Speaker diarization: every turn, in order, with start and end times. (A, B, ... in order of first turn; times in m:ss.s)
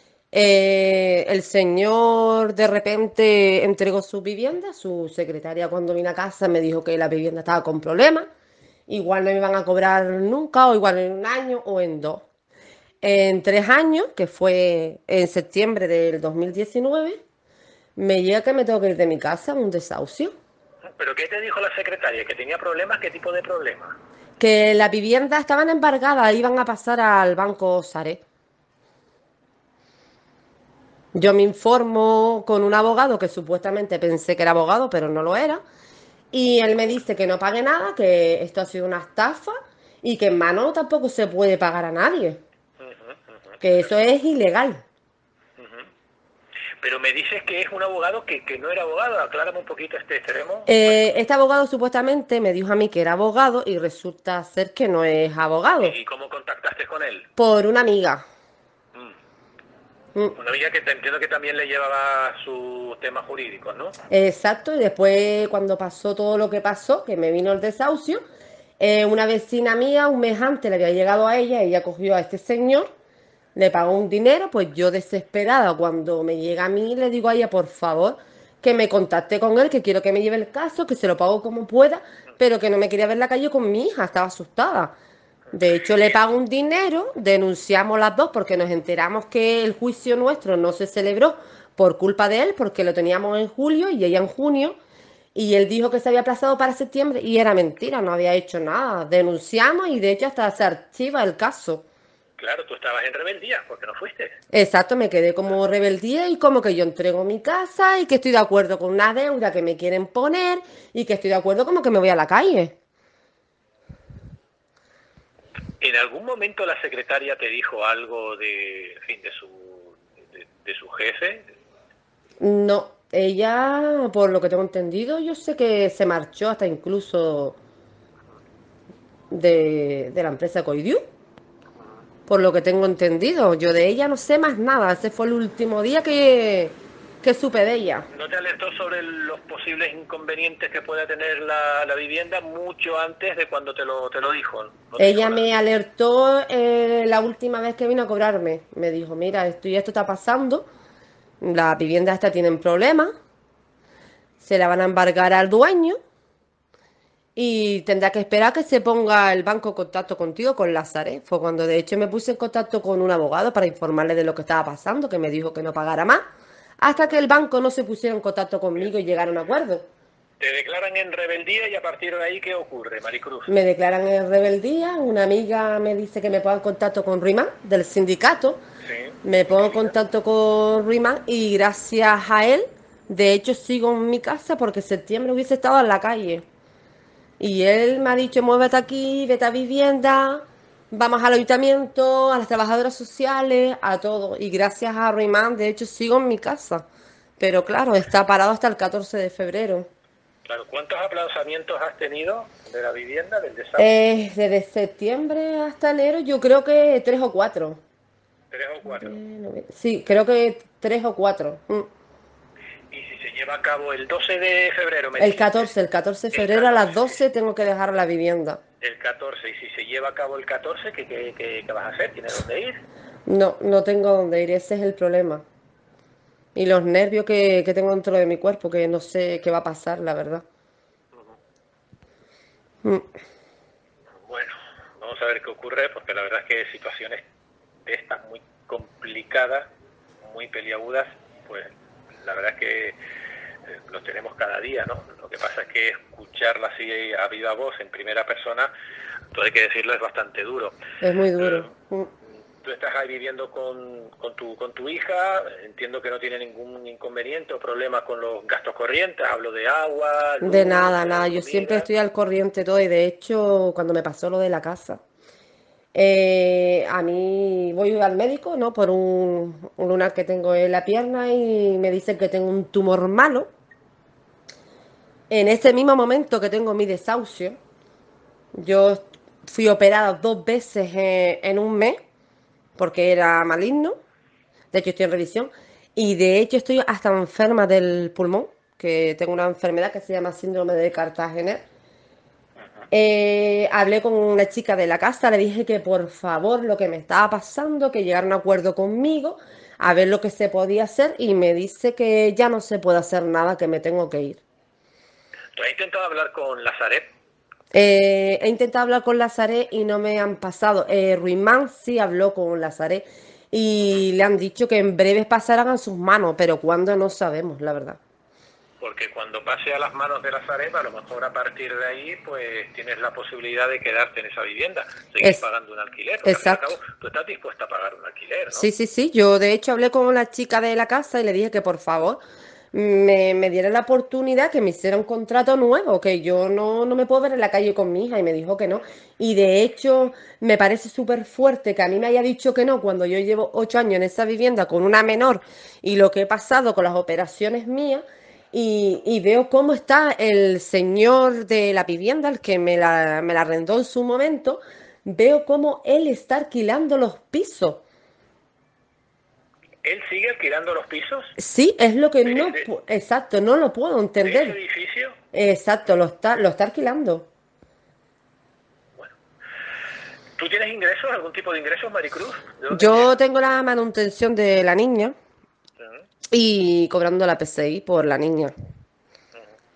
0:00.3-0:08.3 A
0:08.9-0:12.3 A
0:13.0-0:17.2 A
0:18.0-0:20.3 A
0:21.0-0:24.0 B
0:24.4-0:28.2 A
0:31.1-0:35.6 A
0:36.3-0:42.4 A
0:42.8-0:43.6 B
0:43.6-0:44.8 A
0:45.6-0:45.9 B
0:46.8-0:50.8 B
0:50.7-0:56.0 A
0:55.8-0:57.3 B
0:57.4-0:58.2 A
1:00.3-1:03.9 B
1:04.1-1:08.2 A
1:08.8-1:12.9 A
1:13.5-1:24.9 A
1:25.5-1:26.2 B
1:25.5-1:34.8 A
1:35.3-1:41.8 A
1:42.4-1:44.4 B
1:44.5-1:52.8 A
1:55.8-2:01.5 B
2:02.4-2:07.6 A
2:09.3-2:11.0 A
2:12.3-2:18.1 A
2:18.1-2:25.4 B
2:25.0-2:30.7 A
2:31.4-2:33.1 A
2:34.4-2:36.0 A
2:37.4-2:46.2 A
2:46.8-2:49.9 A
2:50.4-2:53.6 B
2:53.5-2:58.6 A
2:58.8-2:59.9 B
2:59.2-3:06.4 A
3:07.4-3:16.9 A
3:17.4-3:19.9 A
3:20.4-3:23.9 B
3:23.8-3:27.8 A
3:28.5-3:29.2 B
3:28.8-3:31.9 A
3:32.9-3:35.7 B
3:35.2-3:38.6 A
3:36.3-3:37.2 B
3:38.8-3:42.8 B
3:43.3-3:45.4 A
3:46.5-3:50.4 A
3:54.2-3:57.2 B
3:57.8-3:59.7 B
4:00.2-4:03.0 B
4:03.7-4:08.7 B
4:09.3-4:10.8 B
4:11.0-4:12.1 A
4:11.4-4:11.7 B
4:12.6-4:21.9 B
4:20.4-4:25.0 A
4:25.9-4:33.5 A
4:35.3-4:37.6 A
4:38.5-4:42.0 A
4:42.8-4:43.9 A
4:44.7-4:51.6 A
4:52.9-5:04.4 A
5:05.5-5:07.1 B
5:07.7-5:18.0 A
5:18.8-5:28.7 B
5:26.2-5:26.7 A
5:28.5-5:32.2 A
5:32.7-5:57.8 A
5:59.8-6:01.3 B
6:01.4-6:04.6 A
6:02.2-6:02.6 B
6:04.2-6:05.2 B
6:05.3-6:07.3 A
6:10.4-6:13.1 B
6:12.7-6:15.1 A
6:16.3-6:18.5 A